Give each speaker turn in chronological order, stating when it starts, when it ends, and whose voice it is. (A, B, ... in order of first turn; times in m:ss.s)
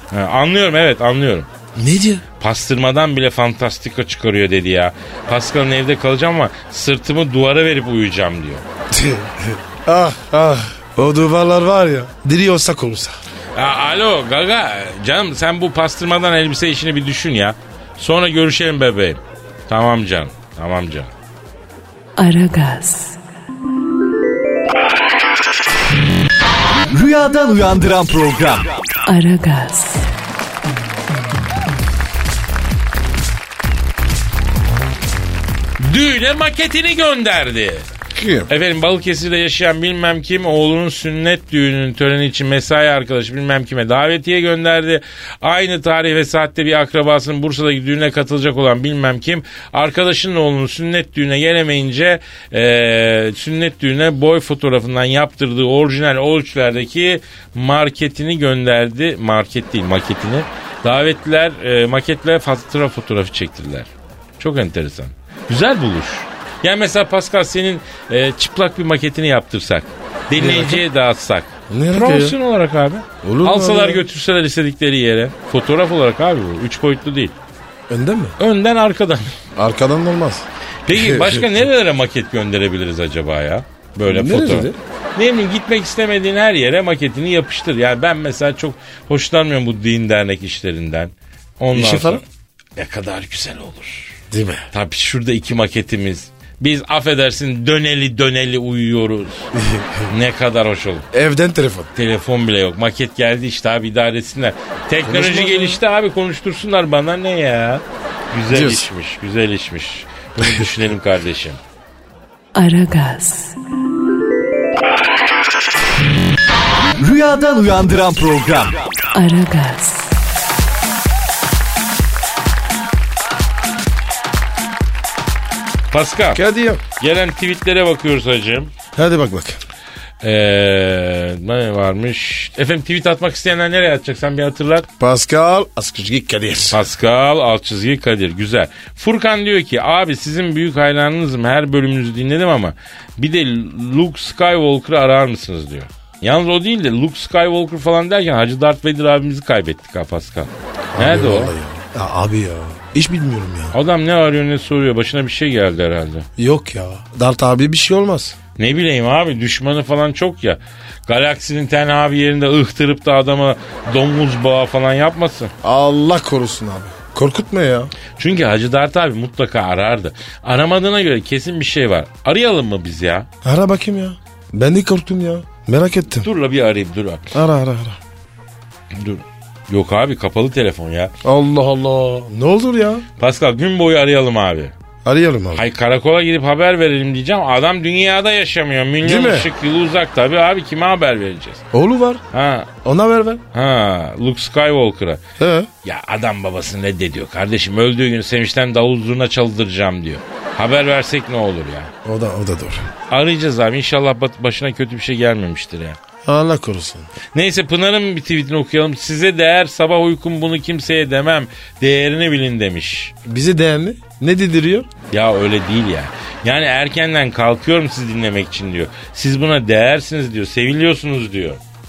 0:00.1-0:01.5 A
0:01.8-0:02.2 B
0:02.4-0:08.6 A
0:08.9-0:13.1 B
0:13.6-0:21.1 A
0:22.2-0:23.2 C
0:26.9-0:28.7 D
0:29.1-0:30.1 C
0:35.8-0:37.9 A
0:38.1-0:38.5 B
0:38.5-1:17.4 A
1:10.3-1:10.8 B
1:11.7-1:12.4 B
1:13.2-1:14.0 B
1:17.9-1:18.4 B
1:18.4-1:19.3 A
1:19.6-1:21.6 B
1:20.9-1:32.2 A
1:24.1-1:24.8 B
1:31.7-1:32.2 B
1:32.8-1:34.2 A
1:34.3-1:34.7 B
1:34.7-1:39.5 A
1:39.6-1:40.1 B
1:40.1-1:41.1 A
1:41.1-1:41.9 B
1:42.0-1:51.6 A
1:45.0-1:45.8 B
1:48.5-1:48.9 B
1:50.4-1:50.8 B
1:52.5-1:53.6 C
1:57.0-1:58.8 D
1:59.1-2:00.1 C
2:05.9-2:06.4 A
2:06.4-2:06.8 B
2:07.0-2:08.7 A
2:08.9-2:09.6 B
2:10.2-2:14.9 A
2:15.0-2:16.8 B
2:16.7-2:31.5 A
2:30.9-2:33.8 B
2:33.7-2:36.3 A
2:36.4-2:38.4 B
2:38.6-2:45.5 A
2:45.6-2:47.9 B
2:48.2-2:53.3 A
2:53.4-2:56.3 B
2:56.2-2:57.4 A
2:57.3-2:58.0 B
2:58.9-3:01.1 A
3:01.2-3:03.0 B
3:03.2-3:04.7 A
3:05.0-3:05.6 B
3:05.6-3:11.6 A
3:09.0-3:09.5 B
3:11.7-3:12.2 B
3:12.3-3:12.7 A
3:12.8-3:13.4 B
3:13.5-3:15.2 A
3:15.4-3:15.7 B
3:15.8-3:21.9 A
3:22.0-3:22.9 B
3:23.1-3:26.0 A
3:26.2-3:27.1 B
3:27.3-3:33.1 A
3:33.2-3:34.9 B
3:35.1-3:41.6 A